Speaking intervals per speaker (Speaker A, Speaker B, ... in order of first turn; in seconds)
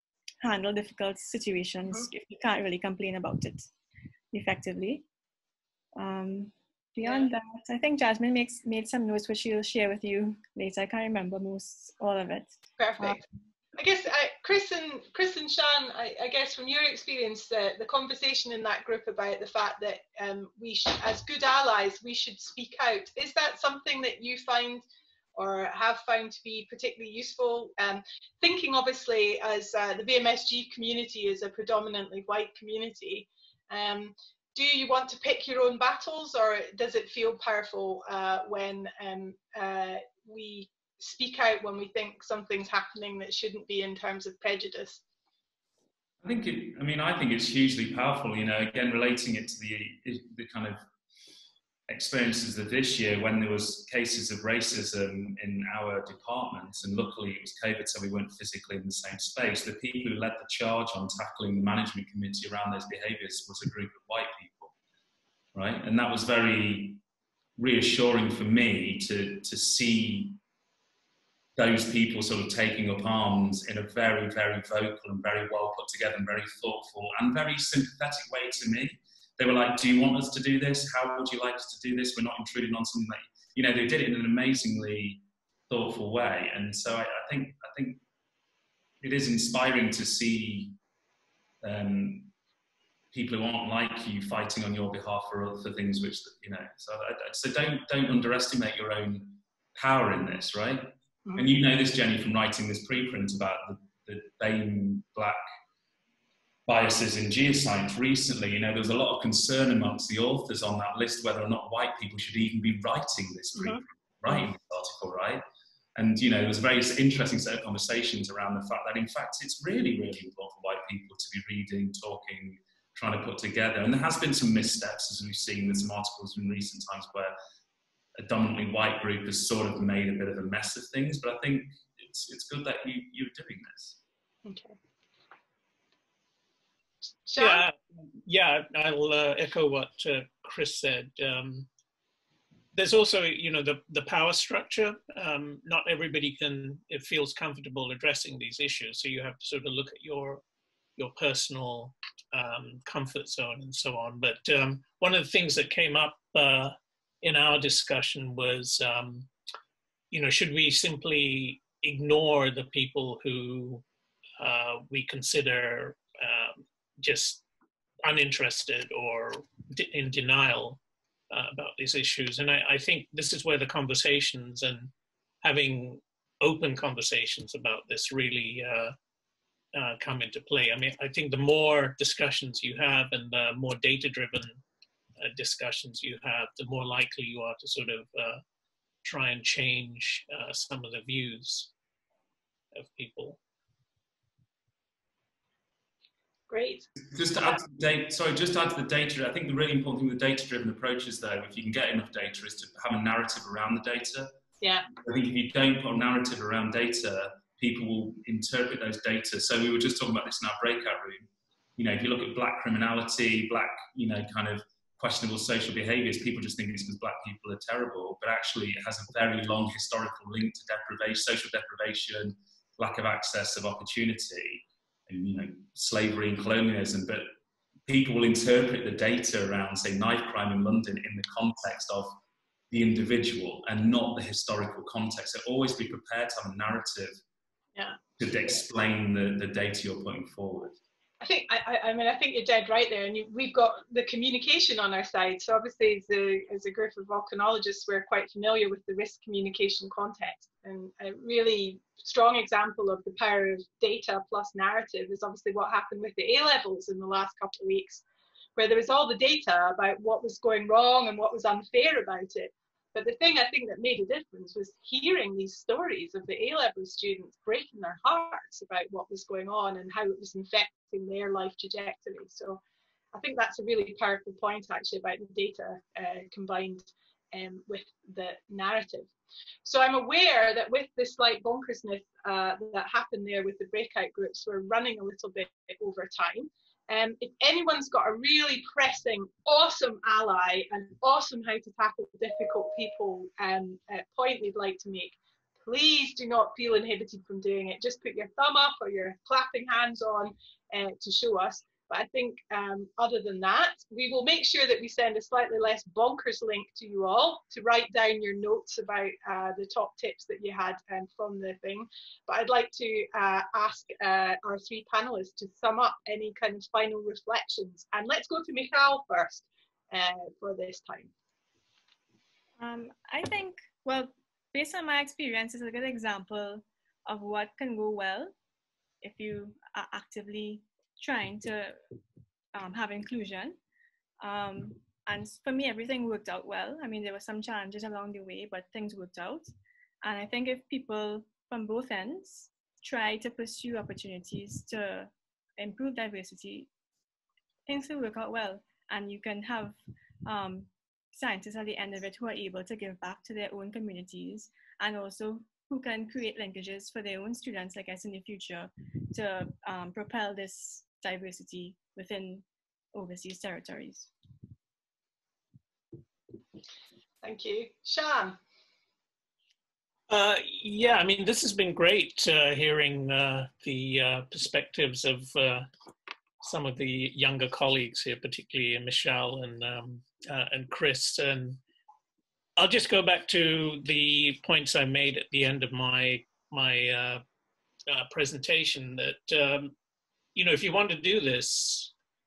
Speaker A: 0.4-3.7, 4.3-5.0, 6.0-13.2, 322.6-328.4, 329.0-331.8, 332.5-333.6, 334.2-339.5, 340.0-346.7, 347.7-364.1
Speaker B: 7.0-7.3, 12.8-13.2, 13.8-45.0, 134.4-134.8, 137.3-137.7, 196.5-197.6, 204.6-204.9, 237.8-238.6, 241.2-258.0, 258.6-272.6, 273.1-279.1, 279.6-321.1, 367.2-368.4
Speaker C: 46.2-50.9, 51.9-64.7, 65.5-67.0, 67.6-70.4, 71.6-88.0, 89.0-90.8, 91.6-92.3, 93.1-105.4, 106.7-115.4, 116.0-127.4, 128.2-134.0, 197.1-204.3, 205.0-211.3, 211.8-227.3, 227.9-232.2, 232.7-237.2, 238.2-240.8
Speaker D: 137.4-141.7, 142.7-150.4, 151.0-159.3, 160.1-163.8, 164.4-167.4, 168.0-179.0, 179.7-184.6, 185.2-188.4, 189.0-191.7, 192.8-193.4, 370.1-375.7, 376.4-381.6, 382.6-387.2, 387.9-389.7, 390.4-391.9